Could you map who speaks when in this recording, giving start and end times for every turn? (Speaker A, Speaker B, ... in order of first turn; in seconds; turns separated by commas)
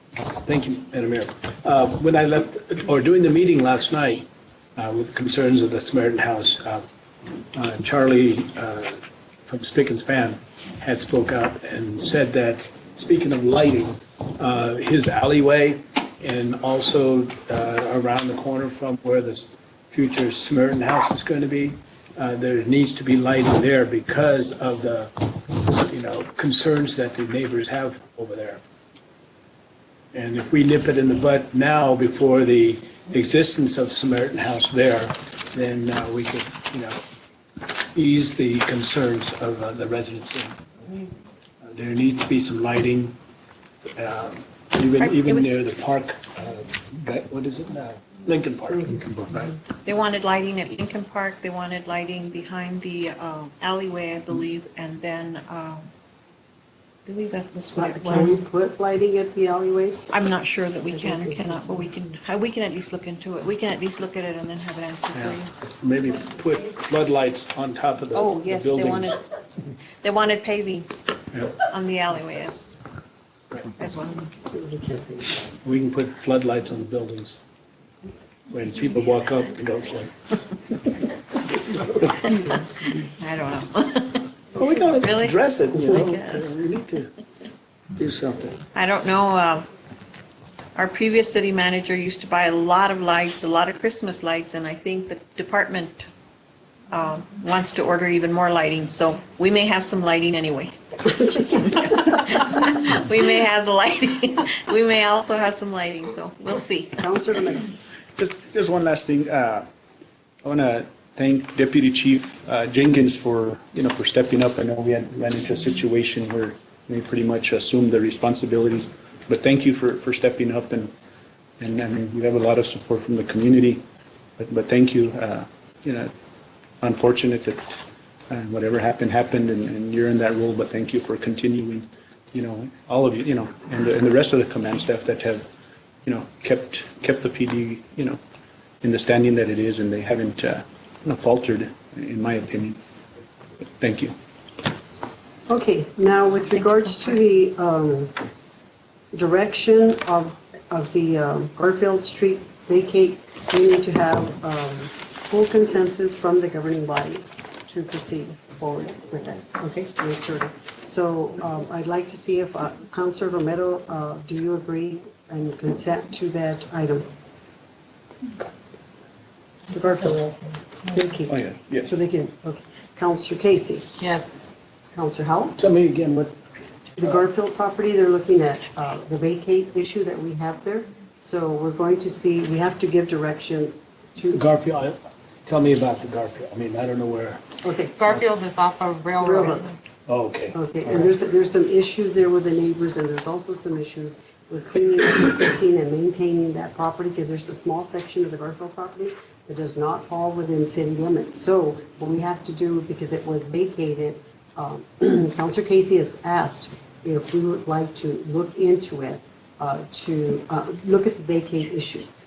Speaker A: 0.3-6.8, Speaker A: 7.5-28.6, Speaker A: 30.1-37.0, Speaker A: 37.7-41.0, Speaker A: 41.6-43.2, Speaker A: 43.9-49.6, Speaker B: 45.0-45.6, Speaker B: 49.8-55.9, Speaker B: 57.1-58.4, Speaker C: 57.8-60.0, Speaker B: 60.1-65.5, Speaker C: 60.9-61.9, Speaker A: 65.1-69.2, Speaker B: 68.1-69.2, Speaker B: 70.0-70.9, Speaker B: 71.5-72.8, Speaker B: 73.8-74.3, Speaker C: 74.5-75.4, Speaker A: 75.6-77.4, Speaker A: 78.5-80.6, Speaker A: 81.7-82.6, Speaker B: 82.4-86.6, Speaker A: 84.5-87.1, Speaker A: 88.0-88.6, Speaker B: 88.7-89.7, Speaker B: 90.8-96.1, Speaker B: 96.9-107.0, Speaker C: 107.0-107.7, Speaker D: 108.2-109.7, Speaker D: 110.4-120.9, Speaker D: 121.6-123.8, Speaker D: 124.4-126.1, Speaker D: 126.8-127.7, Speaker D: 128.3-135.5, Speaker D: 136.1-138.2, Speaker D: 138.8-142.8, Speaker D: 143.8-144.1, Speaker C: 145.5-148.1, Speaker B: 146.5-147.2, Speaker C: 149.1-167.1, Speaker C: 169.7-173.9, Speaker D: 171.3-172.0, Speaker E: 174.0-174.5, Speaker C: 174.9-175.6, Speaker A: 175.6-176.3, Speaker C: 177.0-184.4, Speaker A: 184.3-187.4, Speaker C: 187.6-188.1, Speaker E: 188.0-189.7, Speaker C: 189.1-189.7, Speaker A: 190.1-191.1, Speaker C: 190.5-212.1